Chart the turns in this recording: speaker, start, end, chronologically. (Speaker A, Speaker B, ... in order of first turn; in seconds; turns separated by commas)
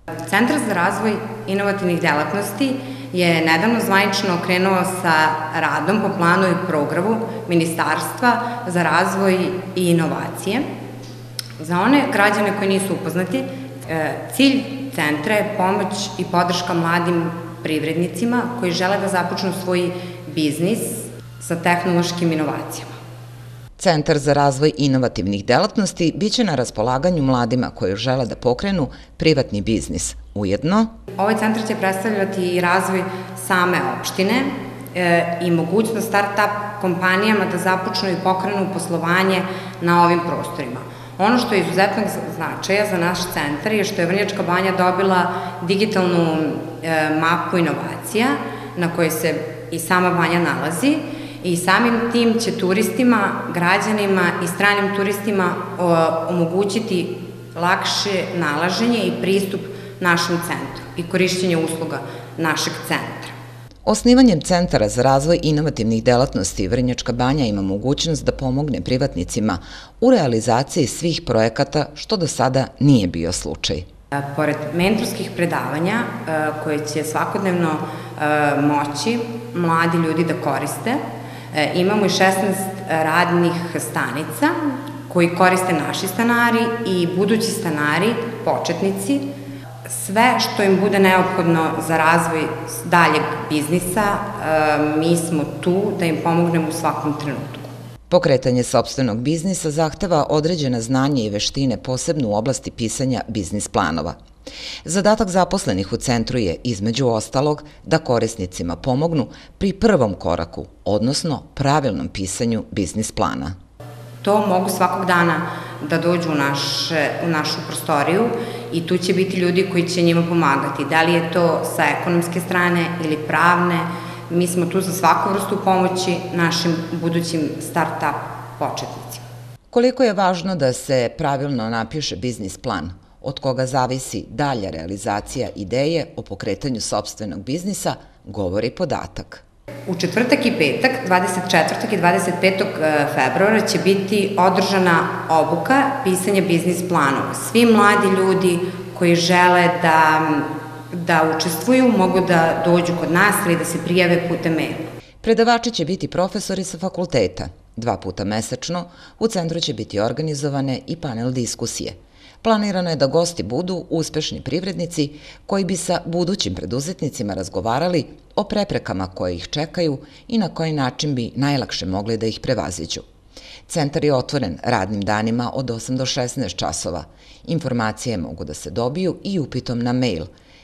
Speaker A: 0.2-10.6, Speaker A: 11.6-23.0, Speaker B: 23.8-30.9, Speaker A: 31.1-63.4, Speaker B: 63.9-73.8, Speaker A: 74.2-81.0, Speaker A: 81.5-89.3, Speaker A: 89.9-97.7, Speaker B: 98.1-104.2, Speaker B: 104.8-113.5, Speaker A: 114.2-129.2, Speaker B: 129.7-139.4, Speaker A: 139.9-154.9, Speaker B: 155.2-173.0, Speaker B: 173.7-180.3